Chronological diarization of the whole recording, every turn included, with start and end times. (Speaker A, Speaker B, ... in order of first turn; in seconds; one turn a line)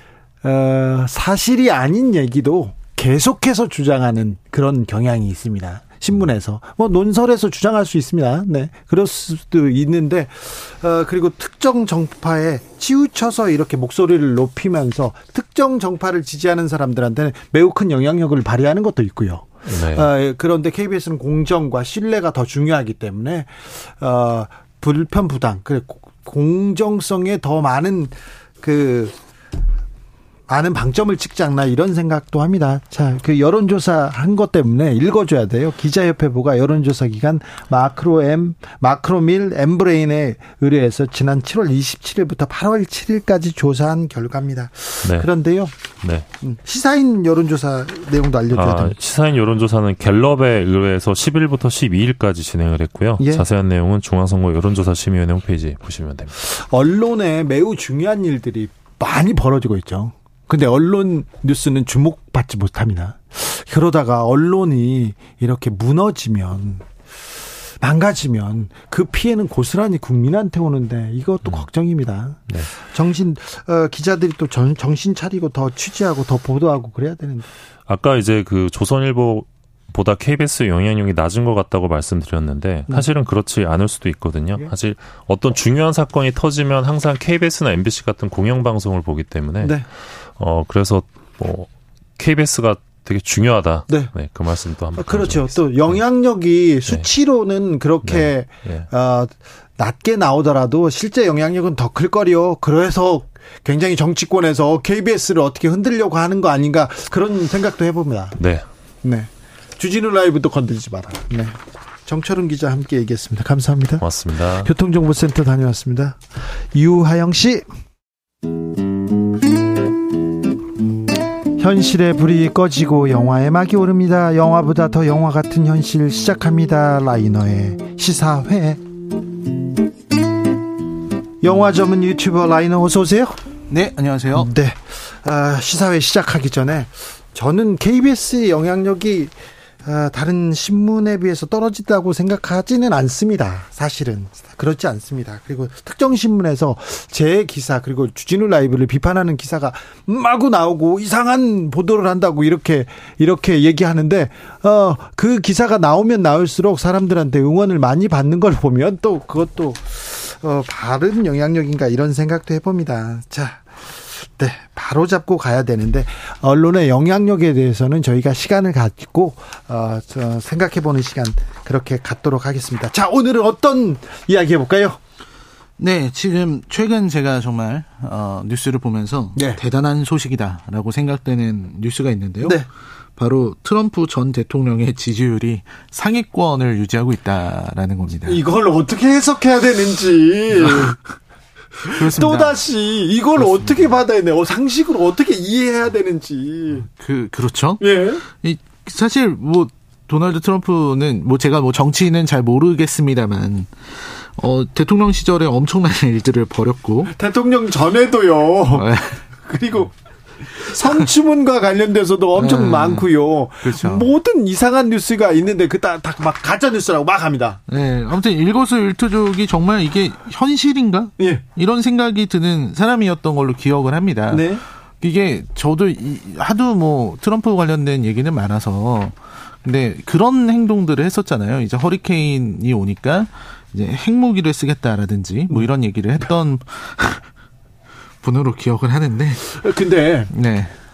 Speaker A: 0.4-29.1
Speaker B: 19.7-20.1
Speaker A: 30.5-45.7
Speaker A: 46.4-48.9
Speaker B: 48.5-56.4
Speaker A: 53.2-53.5
Speaker A: 56.4-66.8
Speaker A: 67.8-77.5
Speaker B: 77.9-89.9
Speaker B: 90.4-96.0
Speaker A: 95.0-108.4
Speaker B: 98.0-98.9
Speaker B: 108.4-108.7
Speaker A: 109.0-114.0
Speaker B: 114.0-114.7
Speaker A: 114.6-117.7
Speaker A: 121.6-128.8
Speaker A: 131.4-133.4
Speaker C: 133.7-134.5
Speaker A: 134.3-139.3
Speaker A: 139.8-175.0
Speaker C: 175.8-182.6
Speaker C: 183.2-188.4
Speaker A: 188.2-191.0
Speaker C: 190.6-191.0
Speaker A: 191.8-196.9
Speaker C: 191.9-192.6
Speaker C: 193.4-193.7
Speaker C: 197.0-207.1
Speaker A: 197.8-198.2
Speaker A: 207.1-217.6
Speaker C: 208.7-209.2
Speaker C: 212.4-213.1
Speaker C: 213.6-214.1
Speaker C: 217.7-237.3
Speaker A: 224.3-224.6
Speaker C: 238.2-239.4
Speaker A: 239.4-240.3
Speaker C: 240.3-240.7